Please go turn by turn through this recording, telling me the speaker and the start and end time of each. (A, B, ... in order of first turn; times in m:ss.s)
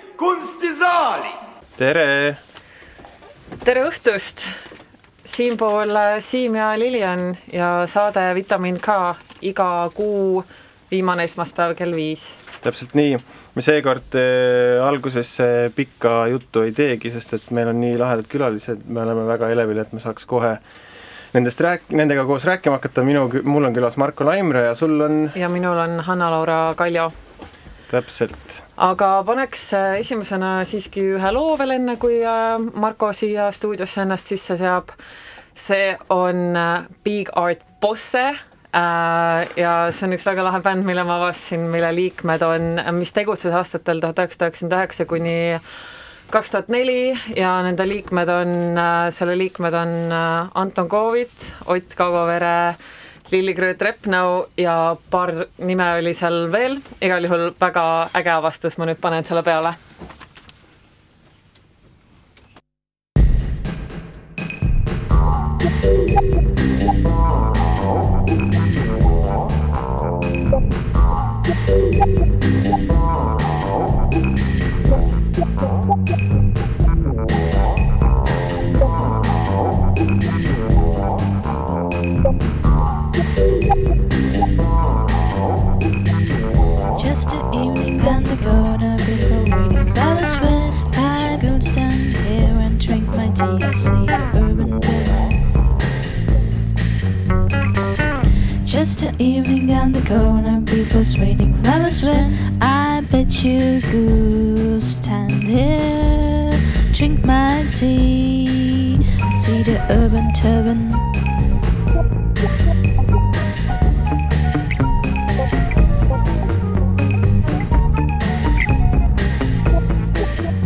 0:01.8-0:02.4 A
0:03.6-0:04.5 B
0:05.2-0:12.4 B
0:12.6-0:20.6 A
0:21.3-0:25.3 A
0:25.3-0:27.1 B
0:27.9-0:28.6 A
0:28.8-0:34.9 B
0:35.5-0:45.6 B
0:46.3-0:59.8 B
1:26.9-1:35.4 C
1:38.6-1:48.6 C
1:49.3-1:51.1 C